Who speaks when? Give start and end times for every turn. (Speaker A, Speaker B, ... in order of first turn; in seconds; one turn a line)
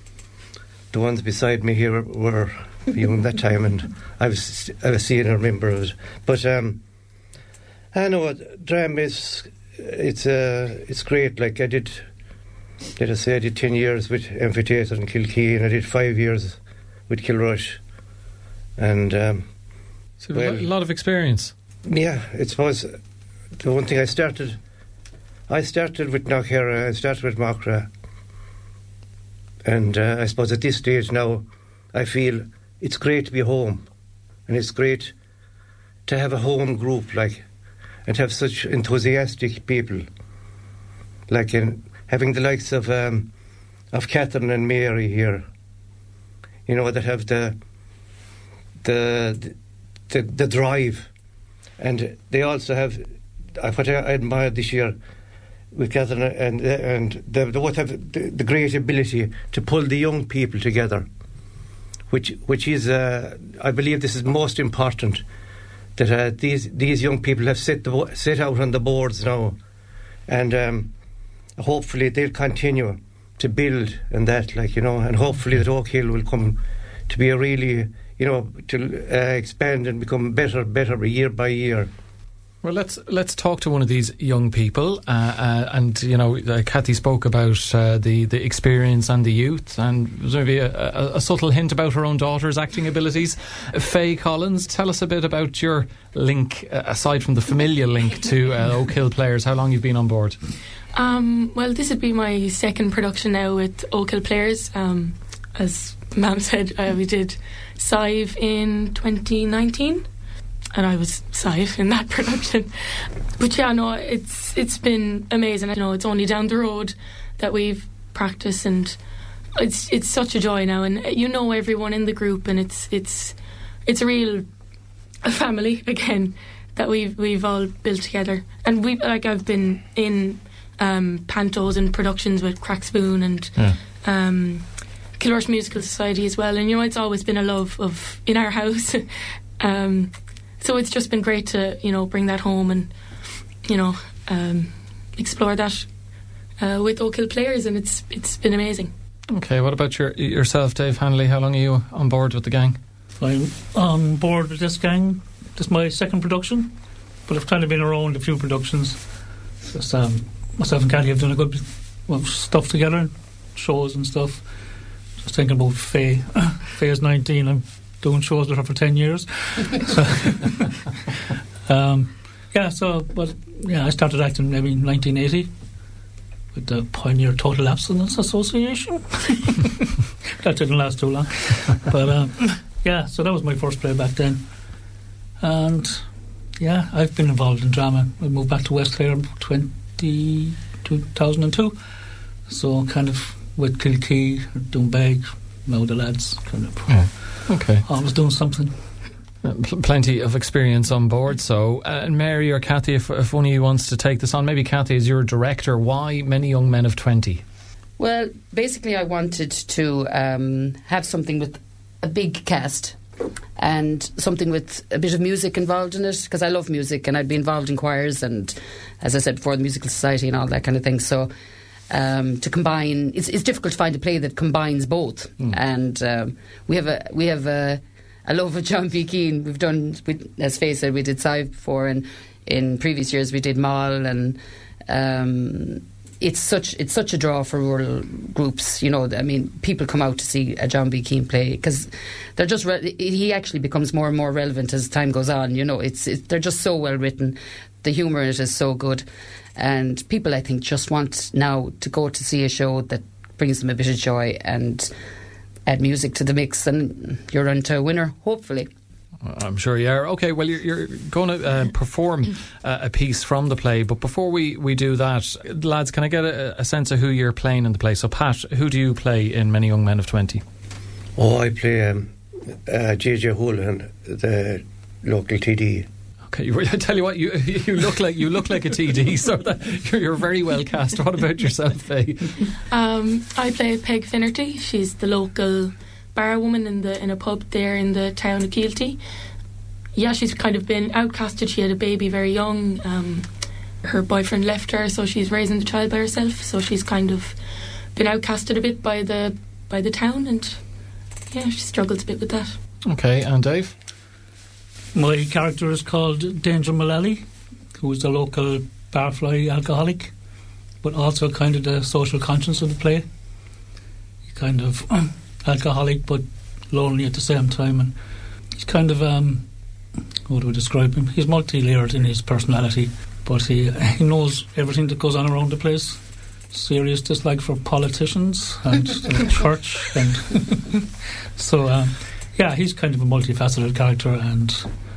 Speaker A: 0.9-6.8
Speaker A: 7.9-12.1
Speaker A: 13.0-17.8
Speaker A: 18.8-19.5
Speaker B: 20.2-21.5
Speaker A: 20.3-20.7
Speaker A: 21.9-23.0
Speaker A: 23.6-24.6
Speaker A: 25.5-27.9
Speaker A: 29.6-33.9
Speaker A: 34.5-35.1
Speaker A: 36.0-37.4
Speaker A: 38.0-40.0
Speaker A: 41.3-43.3
Speaker A: 43.9-45.5
Speaker A: 46.6-47.6
Speaker A: 48.8-49.5
Speaker A: 50.1-51.1
Speaker A: 51.8-53.0
Speaker A: 53.6-55.0
Speaker A: 55.7-61.1
Speaker A: 62.1-65.2
Speaker A: 66.0-69.5
Speaker A: 70.3-70.9
Speaker A: 71.6-81.9
Speaker B: 82.6-100.4
Speaker C: 100.9-110.1
Speaker C: 110.7-119.0
Speaker C: 119.6-124.5
Speaker C: 125.2-142.9
Speaker C: 143.6-145.9
Speaker C: 146.6-148.9
Speaker B: 149.3-152.8
Speaker D: 153.2-156.7
Speaker D: 157.2-159.0
Speaker D: 159.7-164.5
Speaker D: 165.2-170.7
Speaker D: 171.7-175.5
Speaker D: 176.5-179.7
Speaker D: 180.4-184.4
Speaker D: 185.4-191.8
Speaker D: 192.4-198.8
Speaker B: 196.9-197.8
Speaker B: 199.4-207.4
Speaker E: 208.0-213.0
Speaker E: 213.6-221.3
Speaker E: 221.9-254.9
Speaker E: 255.7-258.7
Speaker B: 259.2-270.4
Speaker A: 271.1-272.1
Speaker A: 272.7-275.9
Speaker B: 276.3-282.5
Speaker C: 282.7-289.0
Speaker C: 289.9-293.3
Speaker C: 293.8-297.4
Speaker C: 297.9-300.6
Speaker C: 301.3-302.6
Speaker B: 302.9-303.7
Speaker D: 304.9-310.1
Speaker D: 310.8-313.1
Speaker D: 314.2-318.0
Speaker D: 318.5-319.5
Speaker D: 320.2-330.8
Speaker D: 331.3-334.7